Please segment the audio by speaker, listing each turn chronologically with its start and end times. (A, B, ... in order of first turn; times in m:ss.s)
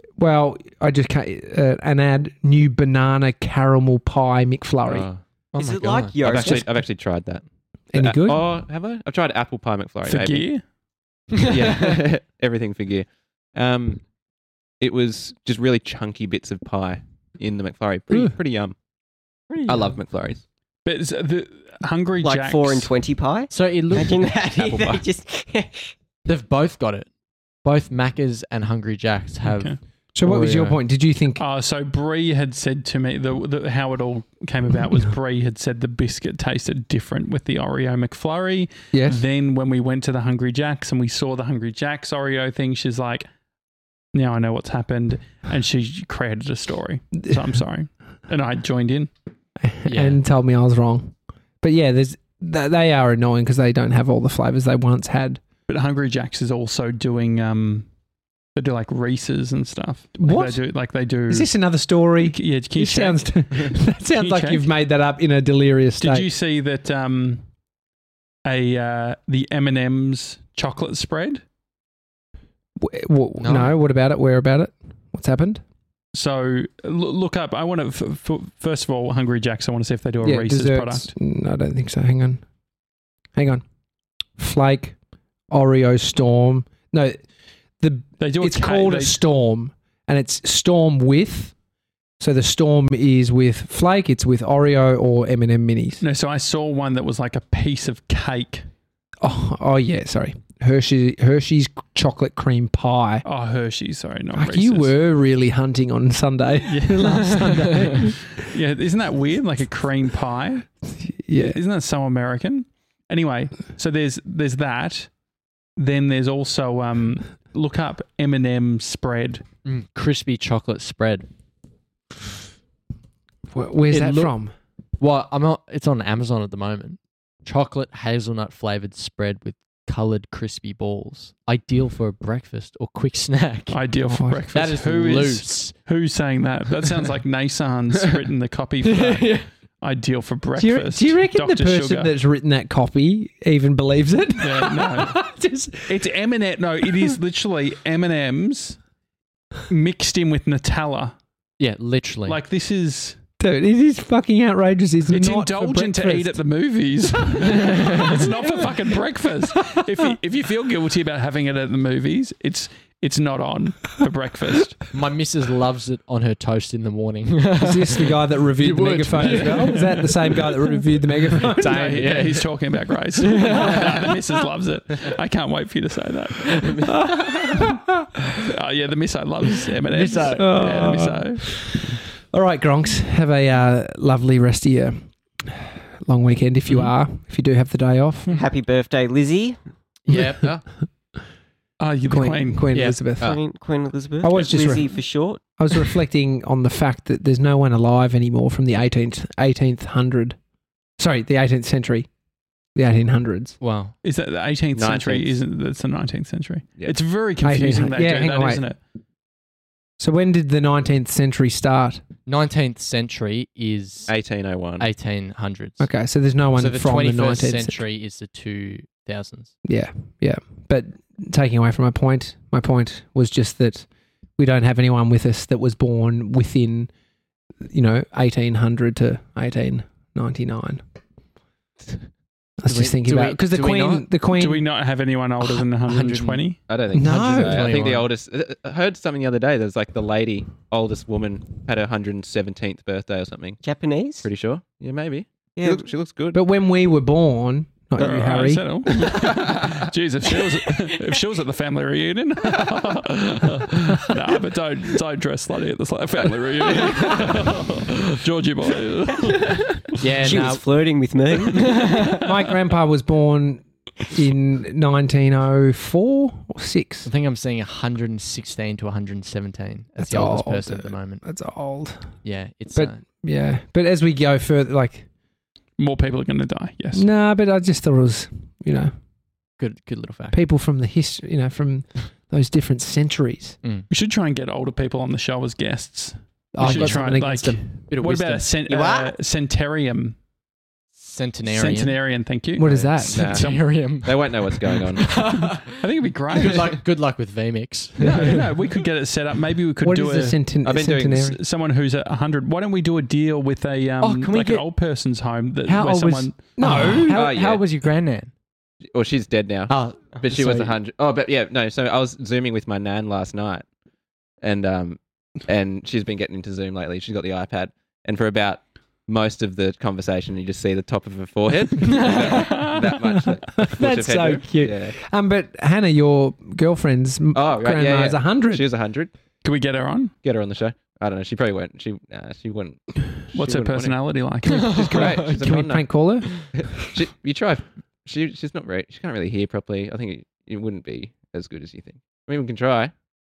0:00.2-0:05.1 A
0:04.8-0:05.2 B
0:05.5-0:06.2 C
0:05.5-0:06.6 D
0:06.2-0:10.5 B
0:07.9-0:08.4 A
0:10.0-0:10.6 E
0:11.4-0:11.8 C
0:11.4-0:14.0 B
0:14.8-0:18.7 B
0:19.5-0:19.9 C
0:19.6-0:20.4 B
0:20.8-0:22.9 E
0:22.2-0:25.9 D
0:23.5-0:24.3 C
0:24.4-0:25.0 B
0:26.2-0:27.1 C
0:27.6-0:30.8 C
0:29.4-0:29.8 E
0:30.1-0:31.4 A
0:31.4-0:43.3 E
0:38.9-0:39.2 A
0:44.1-0:49.1 E
0:49.6-0:55.4 A
0:49.8-0:50.2 C
0:55.7-0:57.9 E
0:58.5-1:01.5 E
1:00.2-1:00.6 A
1:01.3-1:06.3 A
1:02.2-1:04.6 E
1:06.0-1:07.4 E
1:08.4-1:11.4 E
1:12.8-1:15.6 A
1:13.4-1:13.7 C
1:16.1-1:21.1 E
1:20.2-1:22.4 A
1:23.3-1:23.6 A
1:24.4-1:24.9 A
1:25.5-1:27.2 A
1:27.8-1:31.5 A
1:28.2-1:29.2 E
1:32.2-1:36.0 A
1:36.0-1:38.6 E
1:39.2-1:43.2 A
1:43.2-1:44.9 E
1:44.3-1:48.3 A
1:46.7-1:50.7 E
1:51.1-1:51.6 A
1:51.4-1:55.1 E
1:55.8-1:59.4 E
1:59.6-2:01.3 C
2:03.5-2:04.5 A
2:03.9-2:04.3 C
2:05.0-2:13.8 C
2:13.7-2:22.1 E
2:14.1-2:14.4 A
2:14.5-2:15.8 C
2:18.8-2:19.5 C
2:20.6-2:26.0 A
2:24.4-2:25.2 E
2:25.8-2:28.8 E
2:29.7-2:31.1 E
2:31.6-2:32.4 C
2:32.2-2:33.2 E
2:33.4-2:36.4 A
2:35.1-2:44.8 E
2:37.5-2:38.1 C
2:44.9-2:50.6 C
2:47.6-2:52.4 A
2:51.4-2:52.4 C
2:51.4-2:57.8 E
2:53.2-2:54.0 C
2:56.8-2:57.9 A
2:58.4-3:01.5 E
2:59.9-3:00.7 C
3:00.3-3:08.3 A
3:08.3-3:09.6 D
3:10.0-3:10.5 C
3:11.8-3:12.8 E
3:12.1-3:13.3 A
3:12.7-3:13.0 C
3:13.2-3:15.4 D
3:14.2-3:15.0 A
3:15.6-3:20.4 A
3:21.0-3:22.1 A
3:22.8-3:23.6 A
3:23.6-3:23.9 C
3:24.0-3:28.8 E
3:24.7-3:25.4 B
3:27.4-3:28.6 A
3:30.0-3:32.0 A
3:32.2-3:34.1 C
3:34.1-3:34.9 B
3:34.8-3:35.9 C
3:35.8-3:37.8 A
3:36.6-3:39.5 C
3:39.6-3:43.8 A
3:44.4-3:46.9 A
3:47.6-3:50.8 A
3:52.6-3:54.6 A
3:52.6-3:54.1 C
3:54.3-3:56.6 E
3:55.8-3:58.1 C
3:56.7-4:03.6 B
3:56.9-3:57.7 A
4:03.6-4:04.3 D
4:04.2-4:06.4 B
4:05.6-4:05.9 D
4:06.3-4:08.6 A
4:08.0-4:20.0 E
4:20.0-4:20.6 C
4:20.2-4:21.9 D
4:20.2-4:20.6 A
4:21.6-4:22.3 E
4:21.7-4:22.1 C
4:22.1-4:27.1 A
4:27.0-4:31.2 C
4:30.0-4:32.1 A
4:32.2-4:33.0 C
4:32.7-4:35.0 A
4:35.8-4:37.0 E
4:36.9-4:38.9 A
4:39.6-4:40.4 C
4:40.3-4:43.6 A
4:43.9-4:50.2 E
4:46.5-4:47.8 A
4:46.6-4:47.3 C
4:47.9-4:48.5 C
4:48.7-4:49.1 D
4:51.0-4:52.0 C
4:51.5-4:53.6 E
4:52.6-4:53.3 A
4:52.8-4:55.2 B
4:53.1-4:55.8 C
4:55.6-4:56.8 E
4:56.3-4:58.5 C
4:58.0-5:00.4 E
4:59.8-5:01.4 A
5:00.6-5:01.3 B
5:01.1-5:06.5 E
5:04.0-5:04.6 C
5:05.6-5:07.2 A
5:06.6-5:08.3 C
5:07.1-5:07.6 B
5:08.9-5:13.6 B
5:09.7-5:10.8 C
5:14.4-5:25.0 B
5:22.0-5:23.0 E
5:23.6-5:28.6 A
5:27.3-5:29.1 B
5:29.4-5:30.1 E
5:30.2-5:33.9 B
5:33.3-5:34.9 E
5:34.4-5:35.4 C
5:34.6-5:35.9 B
5:35.2-5:36.5 A
5:36.4-5:42.9 B